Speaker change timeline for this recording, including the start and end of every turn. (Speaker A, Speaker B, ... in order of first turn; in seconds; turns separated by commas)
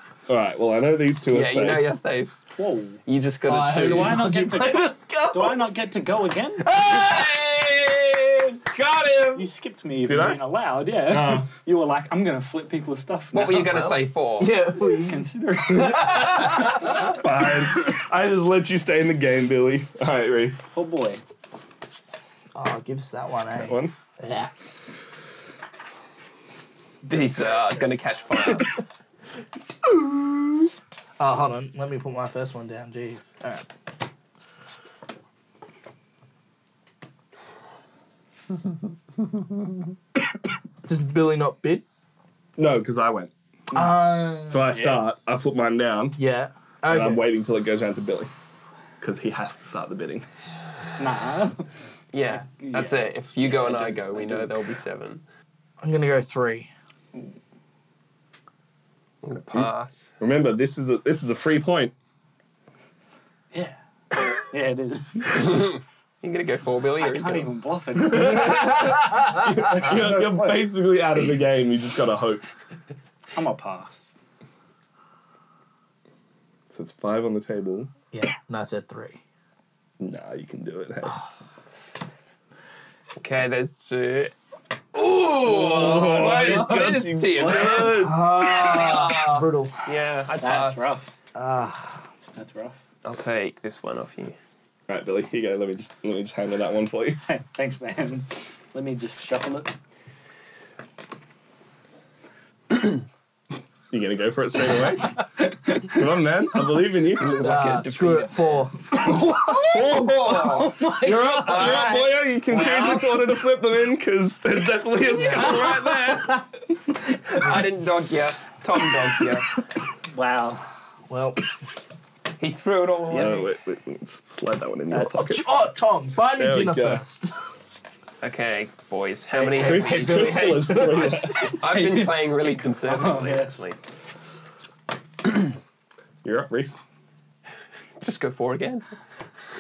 Speaker A: 0.3-2.0, Speaker B: 1.3-2.4, Speaker C: 2.6-3.0, Speaker B: 3.0-4.2, Speaker D: 3.5-5.7, Speaker C: 3.9-6.7, Speaker D: 6.7-7.3, Speaker B: 6.8-9.3, Speaker A: 8.8-9.3, Speaker C: 9.3-14.1, Speaker A: 10.1-10.4, Speaker A: 11.1-11.5, Speaker B: 13.3-14.6, Speaker D: 14.4-16.8, Speaker C: 14.8-17.1, Speaker A: 17.1-20.7, Speaker C: 20.7-21.2, Speaker D: 22.6-24.5, Speaker A: 23.5-23.9, Speaker B: 27.0-28.8, Speaker D: 31.2-33.7, Speaker D: 40.9-41.8, Speaker A: 42.6-43.3, Speaker C: 43.7-44.1, Speaker D: 43.7-44.7, Speaker A: 44.5-46.2, Speaker C: 44.7-45.2, Speaker D: 46.2-47.2, Speaker A: 46.9-48.3, Speaker A: 49.0-50.3, Speaker C: 51.0-51.7, Speaker B: 52.1-55.2, Speaker C: 52.2-54.6, Speaker D: 55.8-56.7, Speaker B: 59.2-60.1, Speaker A: 59.5-61.9, Speaker C: 63.5-63.8, Speaker C: 64.4-65.7, Speaker B: 65.4-65.7, Speaker B: 66.2-67.5, Speaker C: 67.0-68.7, Speaker A: 68.0-72.5, Speaker D: 68.8-69.3, Speaker C: 69.8-70.5, Speaker C: 73.3-74.1, Speaker A: 76.7-77.9, Speaker D: 78.1-79.2, Speaker A: 80.0-81.2, Speaker B: 83.2-84.3, Speaker B: 84.9-91.0, Speaker A: 85.4-88.7, Speaker C: 86.3-86.8, Speaker D: 87.9-89.9, Speaker C: 90.4-91.1, Speaker D: 91.3-92.1, Speaker C: 92.3-92.8, Speaker B: 93.0-94.4, Speaker A: 94.9-97.2, Speaker C: 97.3-99.7, Speaker A: 103.9-105.2, Speaker C: 105.2-106.0, Speaker A: 105.8-107.3, Speaker B: 107.2-108.7, Speaker D: 107.4-109.0, Speaker A: 109.0-110.1, Speaker C: 109.1-113.1, Speaker B: 109.2-110.8, Speaker A: 111.0-116.5, Speaker B: 111.4-112.0, Speaker D: 115.1-115.7, Speaker C: 115.2-116.2, Speaker B: 117.3-119.5, Speaker C: 120.1-120.7, Speaker D: 121.1-121.4, Speaker B: 122.4-123.5, Speaker A: 123.1-125.5, Speaker D: 124.9-127.3, Speaker A: 126.3-127.0, Speaker B: 128.2-133.8, Speaker A: 129.5-131.6, Speaker C: 129.6-133.7, Speaker A: 136.2-136.8, Speaker B: 138.0-138.9